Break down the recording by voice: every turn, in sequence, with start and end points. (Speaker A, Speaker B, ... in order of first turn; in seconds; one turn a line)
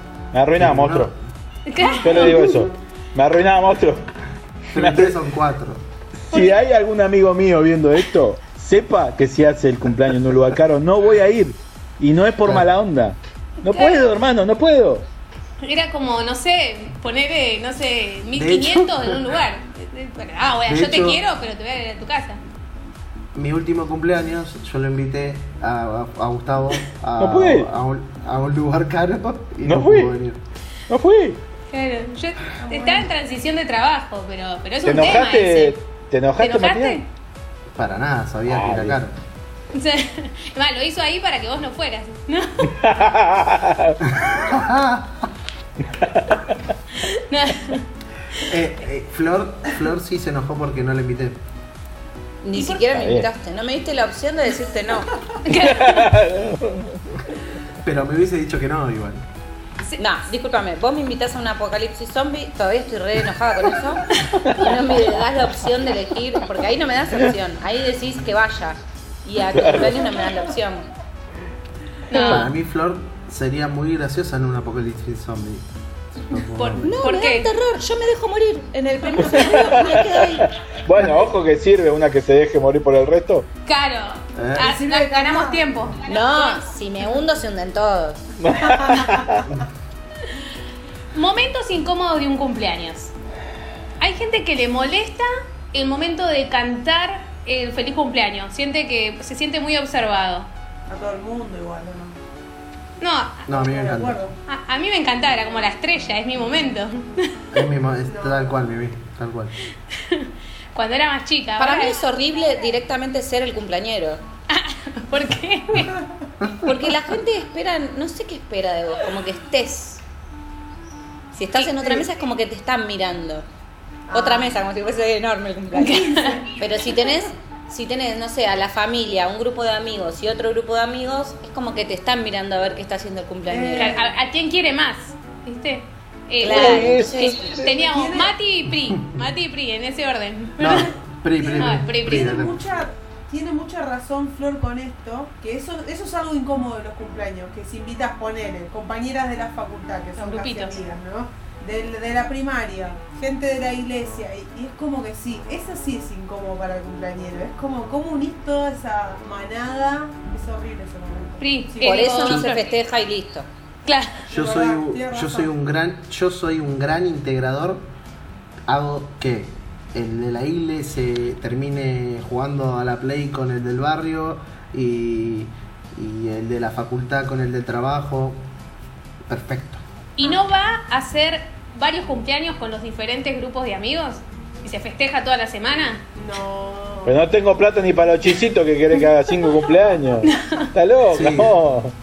Speaker A: 0.3-1.1
Speaker B: 0.6-1.1
Speaker C: 1.6-2.3
Speaker D: 1.9-2.2
Speaker A: 2.0-4.1
Speaker A: 4.7-5.2
Speaker B: 4.7-5.8
Speaker A: 6.2-15.0
Speaker C: 6.3-6.6
Speaker C: 13.6-14.1
Speaker C: 15.6-22.4
Speaker B: 18.3-19.3
Speaker B: 20.6-21.2
Speaker B: 23.3-30.4
Speaker A: 27.2-27.7
Speaker A: 29.6-30.2
Speaker A: 30.9-31.4
Speaker C: 31.7-35.8
Speaker D: 32.6-33.1
Speaker A: 34.8-37.0
Speaker C: 36.4-37.0
Speaker B: 37.7-39.2
Speaker A: 38.5-39.0
Speaker C: 39.7-42.8
Speaker A: 42.6-44.0
Speaker B: 44.3-45.3
Speaker A: 45.9-46.4
Speaker C: 47.0-47.9
Speaker B: 48.4-51.4
Speaker E: 52.4-55.2
Speaker A: 52.9-53.3
Speaker C: 55.4-56.1
Speaker A: 55.5-57.0
Speaker B: 57.8-59.2
Speaker C: 59.8-60.2
Speaker E: 60.0-70.9
Speaker A: 64.2-65.0
Speaker A: 69.5-70.0
Speaker C: 72.1-72.5
Speaker E: 72.1-72.5
Speaker B: 72.2-77.0
Speaker C: 76.5-77.5
Speaker E: 76.8-80.5
Speaker A: 79.2-83.5
Speaker C: 83.7-86.6
Speaker B: 84.3-84.8
Speaker D: 84.6-85.9
Speaker E: 86.0-88.3
Speaker A: 88.4-89.4
Speaker D: 88.7-89.2
Speaker C: 91.1-93.1
Speaker C: 94.0-100.5
Speaker D: 100.9-102.2
Speaker C: 103.0-103.5
Speaker B: 103.5-104.2
Speaker D: 103.5-104.3
Speaker C: 104.5-107.4
Speaker B: 107.5-109.5
Speaker D: 108.0-108.5
Speaker C: 109.9-112.0
Speaker E: 111.6-114.2
Speaker C: 114.5-116.0
Speaker D: 115.8-116.2
Speaker B: 116.4-116.7
Speaker E: 116.6-120.0
Speaker E: 121.3-123.5
Speaker D: 121.7-122.0
Speaker D: 124.1-124.6
Speaker E: 124.1-133.9
Speaker C: 125.7-126.5
Speaker D: 125.8-126.6
Speaker D: 133.5-134.1
Speaker C: 133.7-140.9
Speaker E: 136.4-137.5
Speaker A: 136.4-137.7
Speaker D: 137.6-138.3
Speaker B: 138.9-139.2
Speaker B: 140.6-142.6
Speaker D: 141.4-162.4
Speaker C: 141.5-142.3
Speaker C: 150.2-150.8
Speaker C: 161.4-162.8
Speaker E: 161.8-163.5
Speaker C: 163.8-164.2
Speaker D: 164.3-165.5
Speaker B: 164.3-167.9
Speaker B: 168.7-178.4
Speaker B: 179.3-179.8
Speaker C: 180.2-186.0
Speaker D: 186.2-187.2
Speaker A: 187.1-191.9
Speaker C: 190.2-190.7
Speaker B: 191.1-191.6